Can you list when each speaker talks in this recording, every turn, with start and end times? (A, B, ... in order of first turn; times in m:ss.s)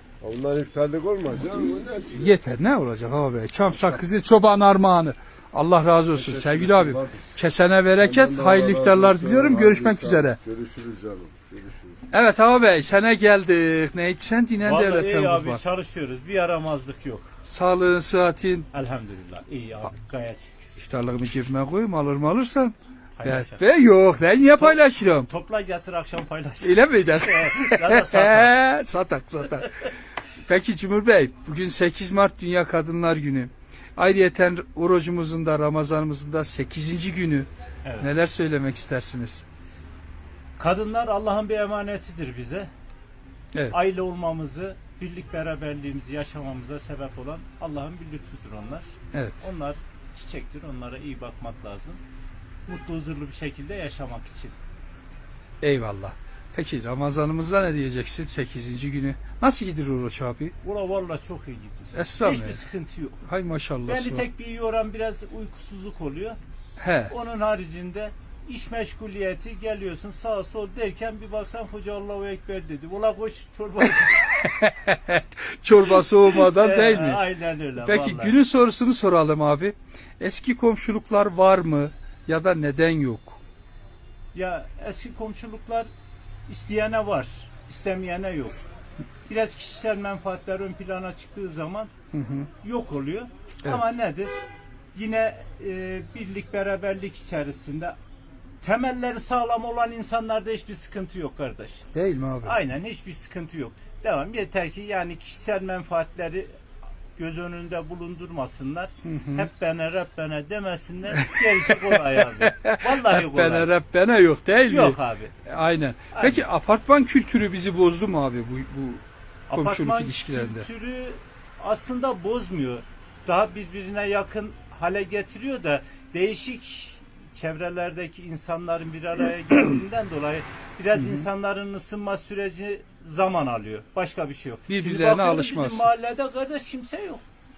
0:00.2-0:02.3 A
0:02.1-0:10.4 B
0:06.1-0:07.3 A
0:08.0-0:12.0 A
0:12.1-0:15.6 B
0:14.6-0:17.3 C
0:17.4-0:18.7 B
0:18.7-0:20.7 C
0:20.8-0:25.3 B
0:23.2-0:23.7 C
0:24.6-0:28.5 C
0:26.6-0:29.8 B
0:30.4-0:37.5 B
0:37.8-0:38.1 C
0:38.0-0:39.4 B
0:40.6-0:42.7 C
0:43.7-0:52.0 C
0:49.1-0:49.5 B
0:52.7-0:54.6 C
0:55.6-1:00.5 B
1:00.6-1:03.2 C
1:01.9-1:02.6 B
1:03.2-1:04.2 B
1:03.8-1:06.4 C
1:06.8-1:07.1 B
1:07.1-1:14.3 C
1:13.9-1:17.2 B
1:15.7-1:18.4 C
1:17.8-1:23.4 B
1:24.3-1:25.9 C
1:26.5-1:28.6 C
1:29.3-1:31.9 C
1:32.1-1:32.5 B
1:32.6-1:34.4 C
1:34.9-1:38.0 C
1:38.6-1:41.8 C
1:41.9-1:42.6 B
1:42.4-1:46.5 C
1:47.2-1:53.7 C
1:49.0-1:49.5 B
1:51.1-2:00.7 B
1:54.7-1:55.3 C
1:56.1-1:56.4 C
1:59.5-2:17.2 C
2:10.9-2:11.3 B
2:14.7-2:15.9 B